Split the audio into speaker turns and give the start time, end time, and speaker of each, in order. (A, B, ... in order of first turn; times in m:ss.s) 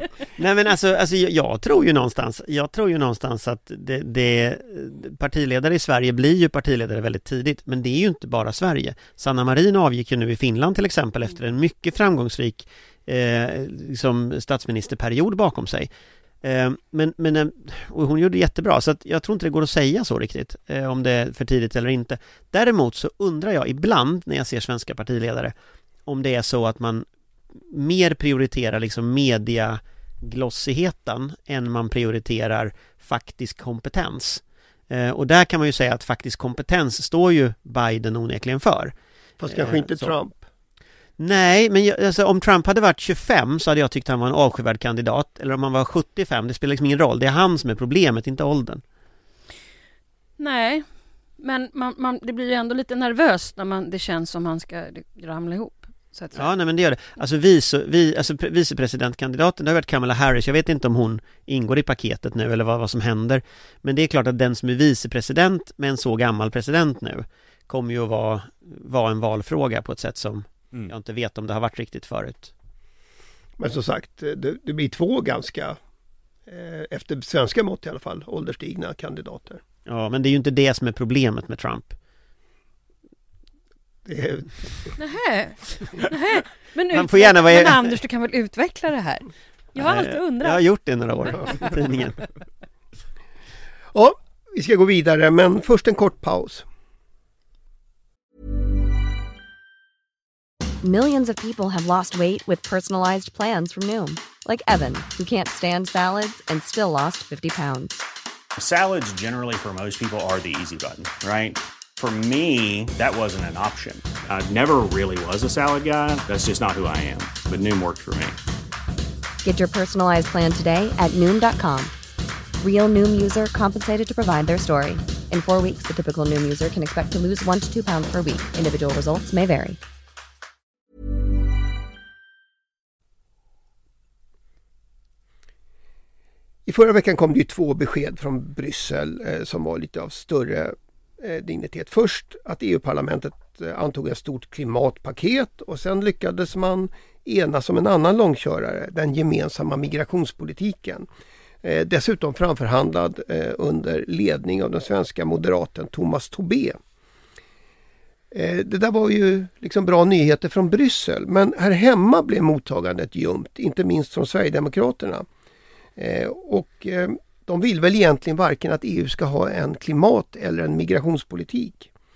0:00.4-0:15.9 A
0:16.4-0:25.6 A
0:26.1-0:39.0 A
0:39.4-0:40.4 B
0:39.5-0:40.2 A
0:41.2-0:48.8 A
0:50.4-0:50.9 C
0:51.4-0:56.5 C
0:56.4-1:12.5 A
1:13.6-1:15.8 B
1:16.5-1:19.6 B
1:19.9-1:22.0 A
1:24.0-1:24.9 B
1:25.0-1:30.6 C
1:26.9-1:28.0 A
1:29.8-1:32.2 A
1:33.9-1:36.6 B
1:40.8-1:48.1 D
1:48.6-1:58.4 E
1:59.4-2:01.9 D
2:02.6-2:09.8 D
2:16.7-2:31.1 B
2:31.6-2:36.8 B
2:38.3-2:45.3 B
2:46.0-2:51.9 B